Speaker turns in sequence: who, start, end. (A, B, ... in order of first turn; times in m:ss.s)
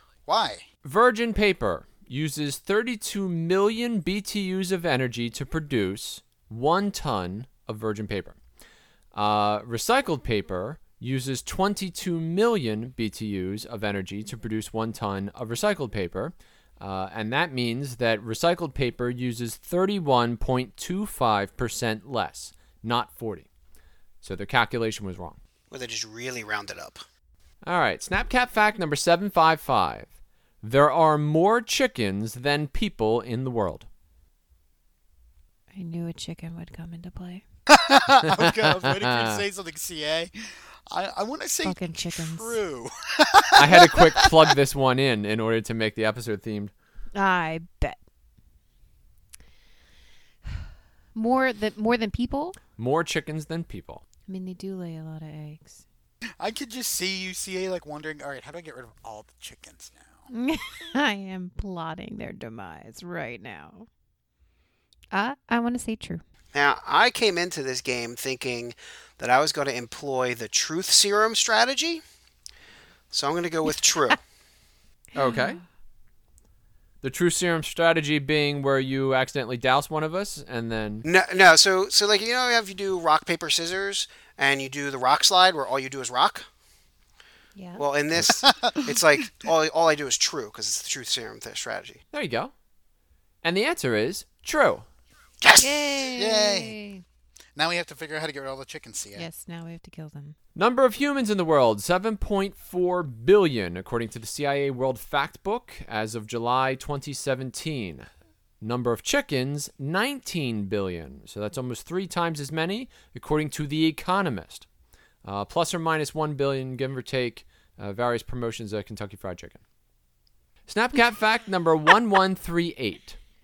0:00.2-0:00.6 A
0:00.8-0:08.4 B
0:09.1-0:23.5 B
0:24.2-0:25.4 B
0:25.7-0:27.0 C
0:27.6-0:30.1 B
0:30.6-0:33.9 B
0:35.7-0:37.4 D
0:37.7-0:44.3 A
0:38.2-0:39.4 B
0:41.6-0:42.6 D
0:43.6-0:46.7 B
0:47.1-0:48.0 D
0:51.1-0:52.6 D
0:52.8-0:54.0 B
0:54.3-0:55.8 D
0:56.4-1:00.2 A
1:00.3-1:03.9 D
1:05.1-1:06.2 D
1:06.5-1:12.0 C
1:13.1-1:14.2 C
1:15.1-1:15.6 B
1:15.2-1:15.6 D
1:17.0-1:21.0 B
1:21.0-1:26.5 C
1:27.6-1:27.8 D
1:27.8-1:32.0 C
1:28.2-1:29.0 A
1:32.1-1:32.5 B
1:33.4-1:34.9 B
1:35.6-1:37.0 D
1:36.1-1:36.8 A
1:37.6-1:39.3 A
1:39.2-1:40.4 D
1:40.6-1:48.1 B
1:48.6-1:54.6 B
1:55.2-1:59.6 B
2:00.7-2:03.2 B